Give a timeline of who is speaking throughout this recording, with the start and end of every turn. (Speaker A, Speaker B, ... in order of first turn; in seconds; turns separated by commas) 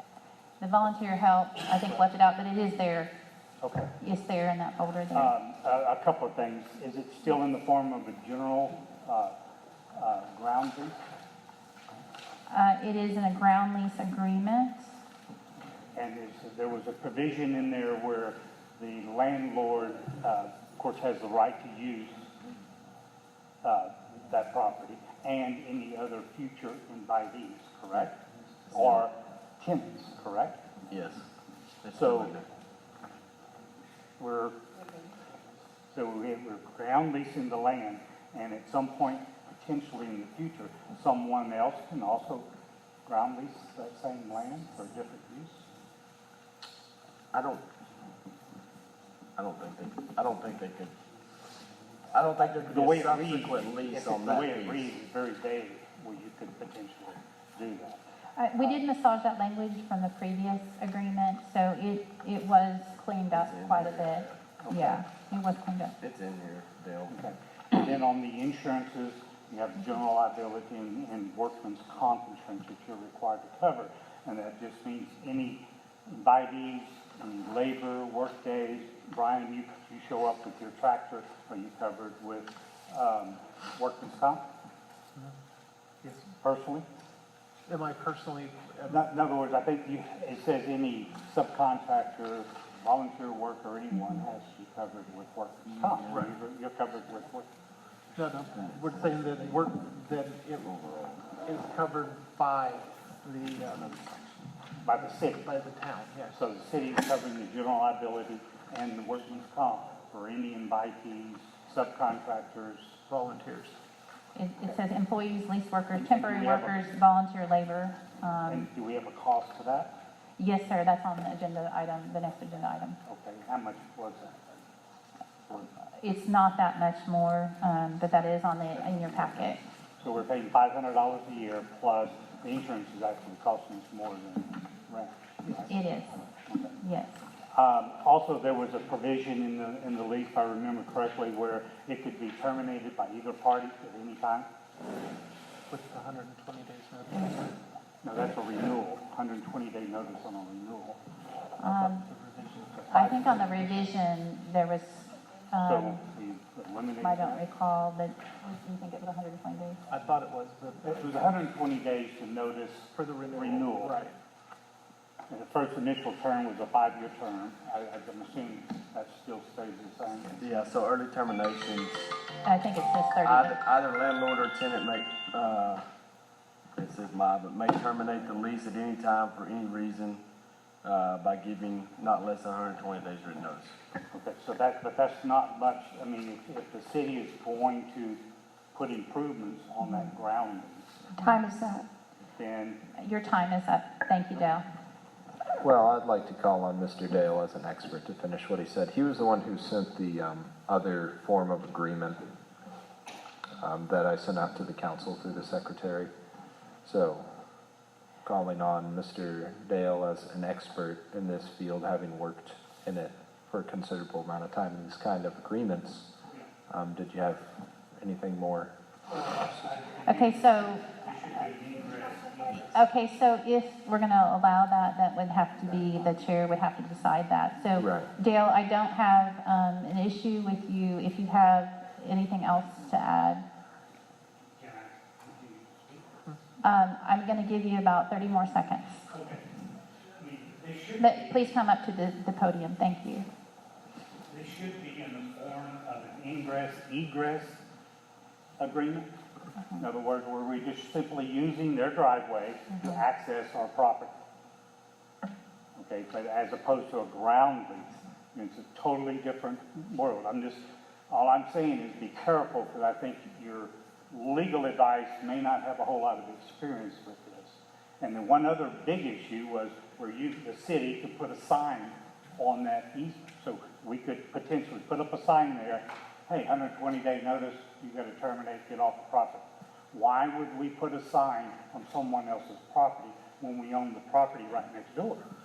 Speaker A: 0.6-3.1, Speaker B: 3.6-3.9, Speaker A: 4.0-5.3, Speaker B: 5.1-9.3, Speaker B: 9.9-11.1, Speaker A: 12.5-14.9, Speaker B: 15.9-22.3, Speaker B: 23.6-28.1, Speaker B: 28.7-30.6, Speaker C: 28.7-29.0, Speaker C: 30.9-31.2, Speaker C: 31.8-32.4, Speaker B: 31.9-32.4, Speaker B: 34.2-34.6, Speaker B: 35.9-42.5, Speaker B: 43.0-45.6, Speaker C: 47.3-47.6, Speaker C: 49.4-50.9, Speaker C: 52.1-54.9, Speaker B: 52.3-58.0, Speaker A: 58.4-66.0, Speaker C: 63.4-64.4, Speaker B: 64.6-65.0, Speaker C: 66.0-67.2, Speaker B: 67.1-84.5, Speaker B: 86.4-86.8, Speaker D: 87.7-89.1, Speaker B: 88.9-97.5, Speaker D: 96.0-96.3, Speaker D: 98.2-100.7, Speaker C: 98.3-99.7, Speaker C: 100.5-101.3, Speaker D: 101.3-104.0, Speaker B: 104.8-105.5, Speaker D: 105.3-106.4, Speaker B: 106.3-113.0, Speaker D: 113.1-113.8, Speaker A: 114.3-118.7, Speaker B: 115.9-116.8, Speaker B: 118.5-119.9, Speaker A: 120.4-123.0, Speaker B: 123.0-124.5, Speaker A: 126.0-129.6, Speaker B: 130.0-135.7, Speaker A: 135.7-136.2, Speaker B: 136.4-136.8, Speaker A: 136.8-137.2, Speaker B: 137.5-144.5, Speaker D: 145.7-147.6, Speaker B: 148.0-151.0, Speaker A: 151.6-152.1, Speaker D: 151.6-153.9, Speaker B: 152.8-153.3, Speaker A: 152.9-156.0, Speaker B: 155.6-157.4, Speaker A: 157.0-159.8, Speaker D: 159.9-161.4, Speaker B: 160.8-164.0, Speaker D: 162.9-164.2, Speaker B: 165.3-170.5, Speaker C: 170.4-172.1, Speaker A: 172.4-173.6, Speaker C: 173.2-175.8, Speaker C: 176.8-180.2, Speaker C: 180.8-183.8, Speaker B: 184.1-188.2, Speaker B: 188.7-191.1, Speaker A: 191.2-191.8, Speaker B: 192.3-192.8, Speaker A: 192.9-194.6, Speaker E: 195.6-202.3, Speaker E: 203.6-206.1, Speaker E: 206.8-207.4, Speaker E: 208.2-216.1, Speaker E: 216.7-218.7, Speaker B: 219.1-222.8, Speaker A: 220.0-220.9, Speaker A: 222.7-233.4, Speaker E: 227.8-228.1, Speaker B: 234.6-236.2, Speaker A: 236.6-239.1, Speaker B: 239.1-239.5, Speaker B: 240.1-241.4, Speaker A: 241.0-243.3, Speaker B: 244.3-247.6, Speaker B: 248.6-249.1, Speaker B: 249.8-254.1, Speaker B: 255.8-285.2